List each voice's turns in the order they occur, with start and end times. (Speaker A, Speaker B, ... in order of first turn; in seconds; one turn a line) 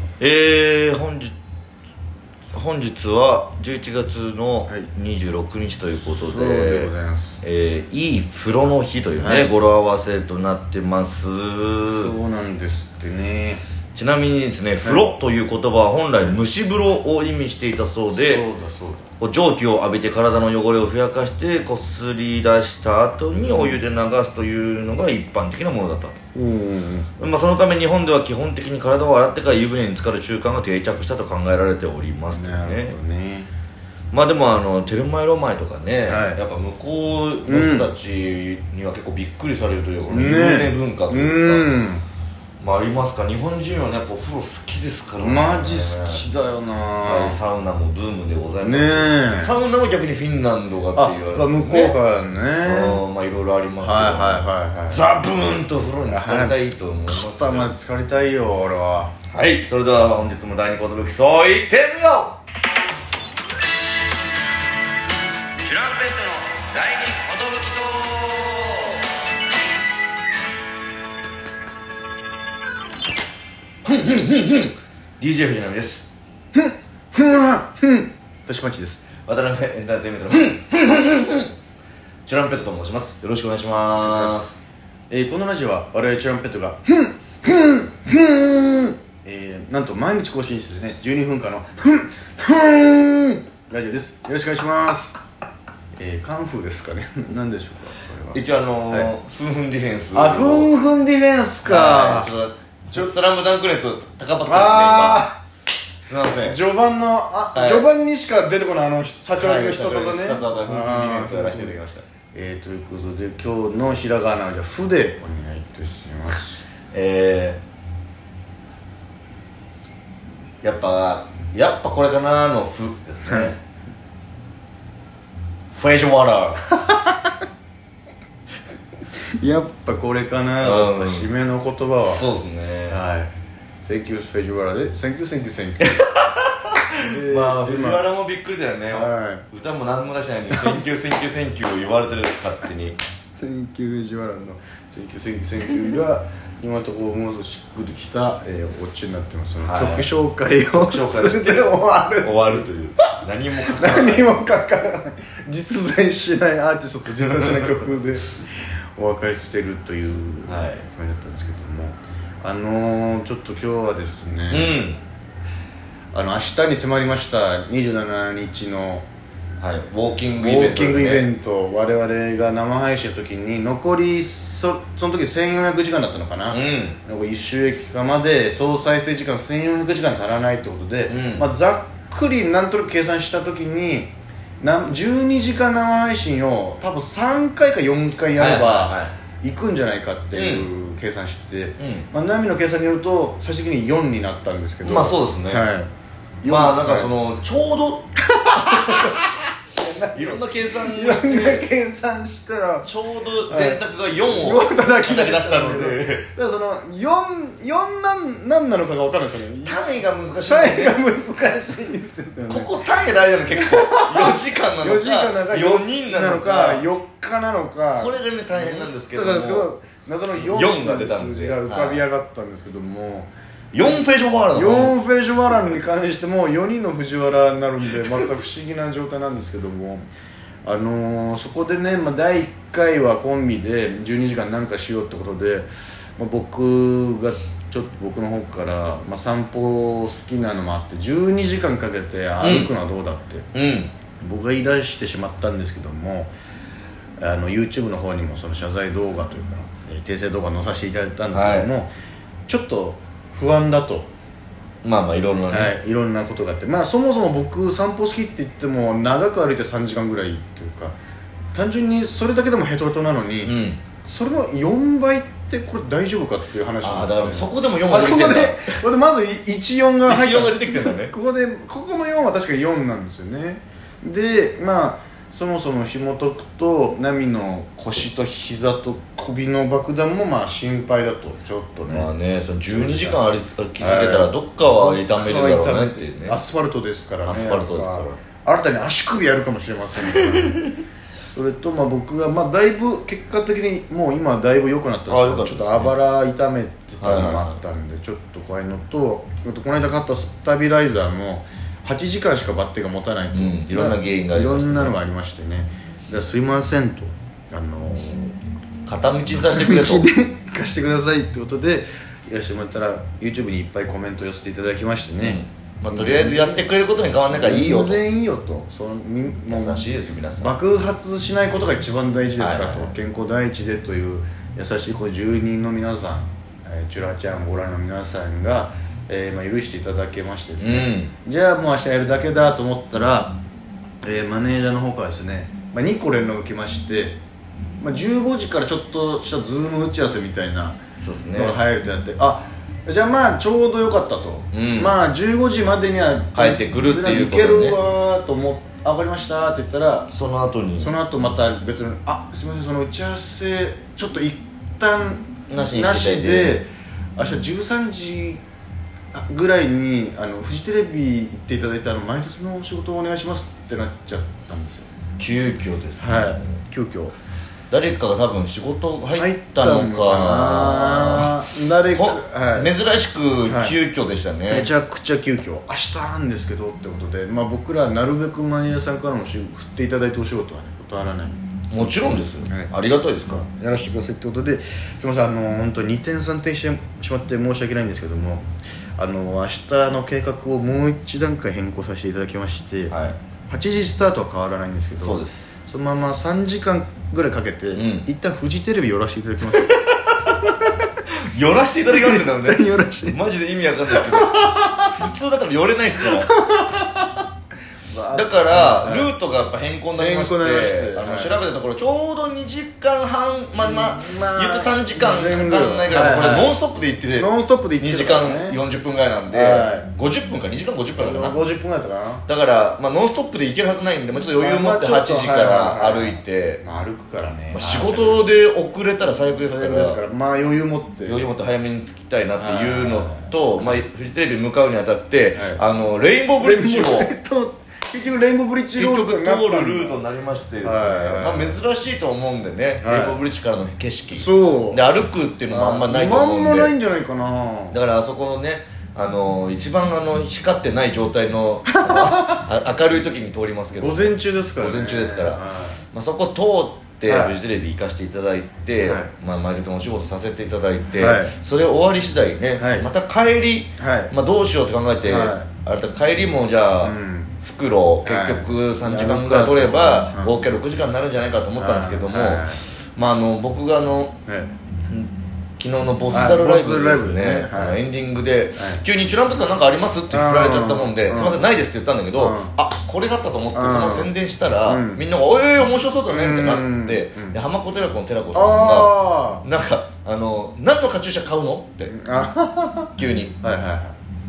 Speaker A: 0.2-1.4
Speaker A: 2.5-6.9
Speaker B: 6.1-7.4
Speaker A: 7.4-12.1
Speaker B: 9.2-9.5
Speaker B: 11.9-13.6
Speaker A: 13.9-18.4
Speaker B: 18.1-19.1
Speaker A: 19.2-26.2
Speaker B: 26.3-27.1
Speaker A: 27.2-33.0
Speaker B: 32.3-33.5
Speaker A: 34.1-41.7
Speaker B: 36.0-36.4
Speaker B: 37.5-37.9
Speaker B: 40.1-42.0
Speaker A: 42.6-46.2
Speaker B: 45.2-47.4
Speaker A: 47.0-52.0
Speaker B: 48.6-49.5
Speaker B: 50.9-53.0
Speaker A: 52.6-57.7
Speaker B: 53.8-55.0
Speaker B: 56.0-59.1
Speaker A: 59.3-62.4
Speaker A: 65.6-69.1
Speaker A: 73.8-76.1
Speaker B: 76.5-79.0
Speaker A: 79.2-81.5
Speaker A: 82.2-84.6
Speaker B: 84.0-84.4
Speaker B: 85.1-95.2
Speaker B: 96.0-99.1
Speaker A: 98.3-100.7
Speaker B: 100.1-102.3
Speaker A: 101.6-105.3
Speaker B: 104.5-105.4
Speaker A: 106.0-106.6
Speaker B: 106.3-111.7
Speaker A: 107.5-107.9
Speaker A: 109.4-112.0
Speaker B: 112.3-116.6
Speaker A: 116.9-117.6
Speaker A: 120.6-123.6
Speaker B: 123.2-123.5
Speaker A: 125.7-126.6
Speaker B: 129.3-132.3
Speaker A: 130.6-131.3
Speaker A: 132.0-133.0
Speaker B: 132.9-133.3
Speaker B: 133.8-136.0
Speaker A: 135.9-143.0
Speaker B: 137.0-138.0
Speaker B: 138.9-139.4
Speaker B: 140.5-140.8
Speaker B: 143.3-152.7
Speaker A: 149.6-150.1
Speaker A: 150.7-154.3
Speaker B: 153.7-164.8
Speaker A: 157.3-157.7
Speaker A: 160.5-160.8
Speaker A: 164.5-165.0
Speaker B: 166.1-169.1
Speaker A: 169.6-171.3
Speaker B: 170.4-195.9
Speaker A: 176.5-177.0
Speaker A: 181.1-181.4
Speaker A: 188.3-189.1
Speaker A: 190.3-190.7
Speaker A: 191.8-192.1
Speaker A: 194.8-195.7
Speaker B: 196.4-197.1
Speaker A: 196.5-199.3
Speaker B: 198.3-202.9
Speaker A: 200.1-201.7
Speaker A: 202.8-206.2
Speaker B: 203.5-212.7
Speaker A: 209.6-211.0
Speaker A: 212.5-216.9
Speaker B: 213.5-230.1
Speaker A: 217.9-219.7
Speaker A: 220.3-222.0
Speaker A: 223.7-224.9
Speaker B: 230.6-243.5
Speaker A: 242.4-242.7
Speaker A: 243.5-243.9
Speaker B: 244.2-246.3
Speaker B: 247.2-251.9
Speaker A: 251.3-251.7
Speaker B: 252.5-254.1
Speaker A: 254.8-255.7
Speaker B: 255.5-260.9
Speaker B: 261.5-282.1
Speaker A: 263.4-263.8
Speaker A: 266.8-268.8
Speaker A: 270.1-271.1
Speaker A: 281.9-286.4
Speaker B: 282.7-283.2
Speaker B: 283.8-290.7
Speaker A: 287.2-288.2
Speaker A: 290.2-290.7
Speaker B: 291.3-308.4
Speaker A: 295.1-295.9
Speaker A: 297.0-297.6
Speaker A: 303.3-304.9
Speaker A: 308.9-310.1
Speaker B: 309.3-316.7
Speaker A: 315.2-318.0
Speaker B: 317.3-333.4
Speaker A: 319.5-320.5
Speaker A: 322.4-322.9
Speaker A: 330.6-331.1
Speaker B: 334.0-337.2
Speaker B: 337.8-340.8
Speaker A: 341.0-341.6
Speaker B: 341.3-350.1
Speaker A: 344.5-344.9
Speaker A: 346.3-347.8
Speaker A: 350.1-350.9
Speaker B: 350.8-358.4
Speaker A: 355.5-356.6
Speaker B: 359.1-364.9
Speaker A: 365.2-366.5
Speaker B: 366.0-367.1
Speaker A: 367.7-374.7
Speaker B: 369.1-372.7
Speaker B: 373.5-373.7
Speaker B: 374.5-382.7
Speaker A: 381.7-383.4
Speaker B: 383.3-388.4
Speaker B: 389.0-392.9
Speaker A: 392.9-393.2
Speaker B: 393.5-399.8
Speaker A: 395.0-395.4
Speaker A: 397.7-398.1
Speaker A: 399.6-400.5
Speaker B: 400.4-400.7
Speaker A: 401.1-406.3
Speaker B: 401.8-403.2
Speaker B: 403.9-404.9
Speaker B: 406.0-407.2
Speaker B: 407.9-409.1
Speaker A: 408.1-421.3
Speaker B: 409.9-411.4
Speaker B: 413.6-416.5
Speaker B: 417.1-418.6
Speaker B: 419.3-419.9
Speaker B: 420.9-422.2
Speaker A: 422.2-426.6
Speaker B: 424.4-428.3
Speaker A: 427.5-430.0
Speaker B: 429.5-431.2
Speaker A: 431.1-437.1
Speaker B: 432.4-433.8
Speaker B: 435.3-435.6
Speaker B: 436.4-440.0
Speaker A: 438.8-446.7
Speaker B: 440.6-441.6
Speaker B: 442.8-443.2
Speaker B: 444.1-444.8
Speaker B: 445.5-447.8
Speaker A: 447.7-474.1
Speaker B: 451.7-452.4
Speaker B: 453.7-455.8
Speaker B: 457.0-457.3
Speaker B: 458.8-459.1
Speaker B: 461.0-461.4
Speaker B: 462.6-462.9
Speaker B: 463.8-464.1
Speaker B: 465.0-465.5
Speaker B: 466.8-467.3
Speaker B: 468.0-470.3
Speaker B: 471.6-472.6
Speaker B: 474.2-474.5
Speaker A: 474.9-491.9
Speaker B: 476.1-477.8
Speaker B: 478.6-478.8
Speaker B: 480.1-481.5
Speaker B: 482.1-482.5
Speaker B: 483.5-485.0
Speaker B: 486.1-487.4
Speaker B: 488.3-489.4
Speaker B: 491.9-494.0
Speaker A: 493.0-493.3